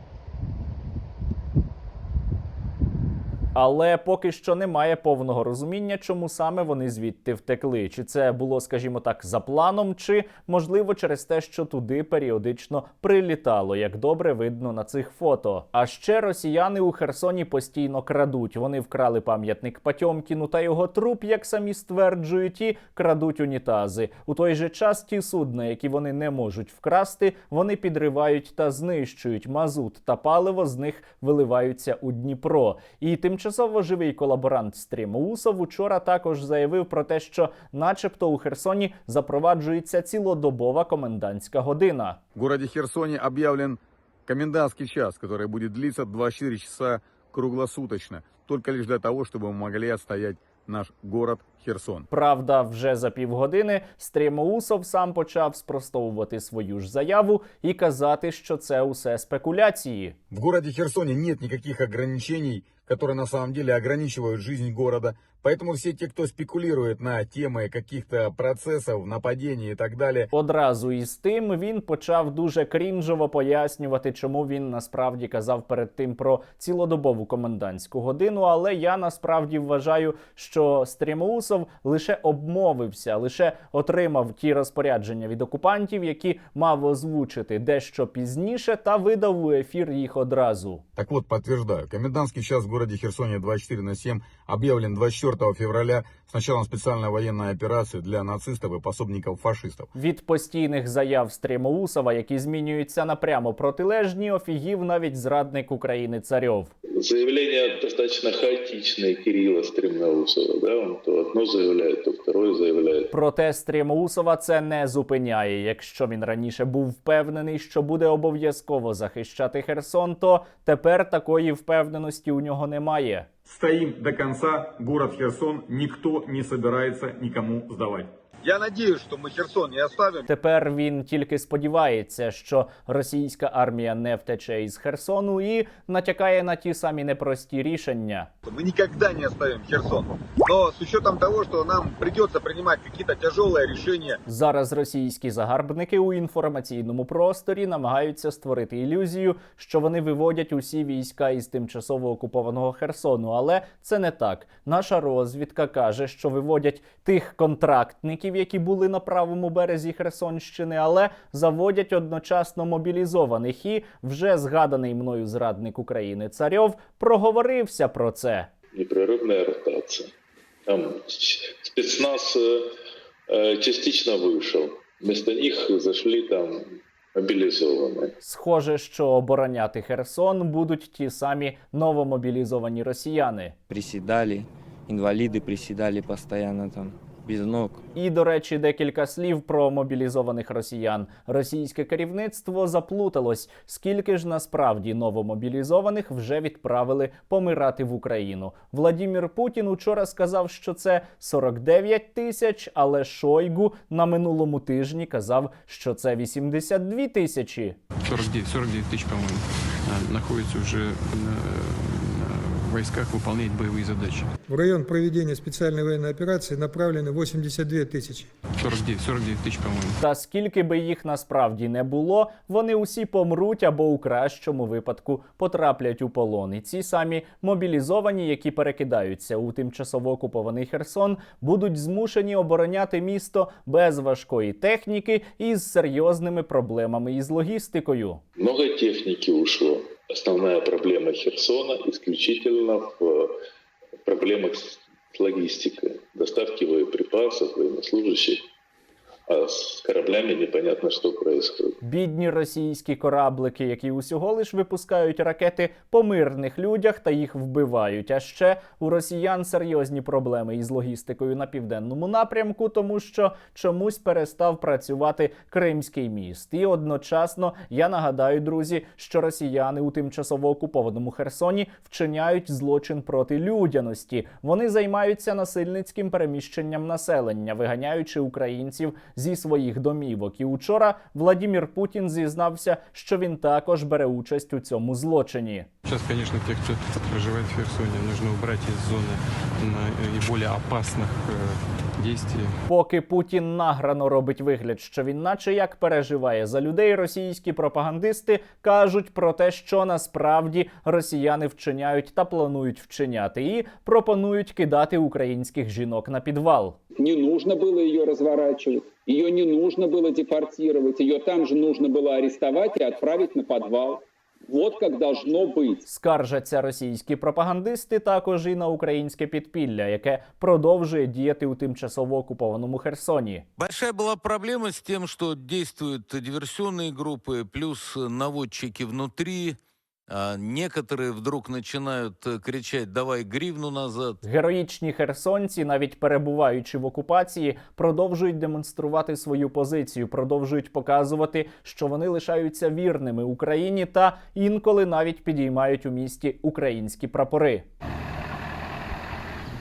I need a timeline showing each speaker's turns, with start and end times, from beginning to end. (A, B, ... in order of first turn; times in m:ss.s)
0:03.5-0:42.2 A
0:42.4-0:52.1 B
0:52.1-1:00.2 A
1:00.3-1:10.3 B
1:10.3-1:30.8 A
1:31.0-1:39.9 B
1:39.9-1:46.7 A
1:47.0-1:53.0 C
1:53.1-2:03.3 A
2:03.4-2:10.2 B
2:10.3-2:18.3 A
2:18.4-2:24.2 B
2:24.2-2:48.5 A
2:48.8-2:50.0 C
2:50.7-2:52.2 C
2:53.3-2:56.4 C
2:57.2-2:58.0 C
2:58.2-3:03.6 A
3:03.7-3:07.8 D
3:08.0-3:27.8 A
3:28.0-3:34.3 E
3:34.5-3:38.3 F
3:38.6-3:40.0 E
3:40.0-3:58.2 A
3:58.4-4:03.1 C
4:04.1-4:04.6 C
4:05.1-4:08.4 C
4:09.3-4:11.7 C
4:11.8-4:45.7 A
4:45.8-4:52.6 E
4:52.7-5:06.8 A
5:07.0-5:15.8 G
5:15.9-5:23.4 A
5:23.6-5:34.2 H
5:34.2-5:47.6 A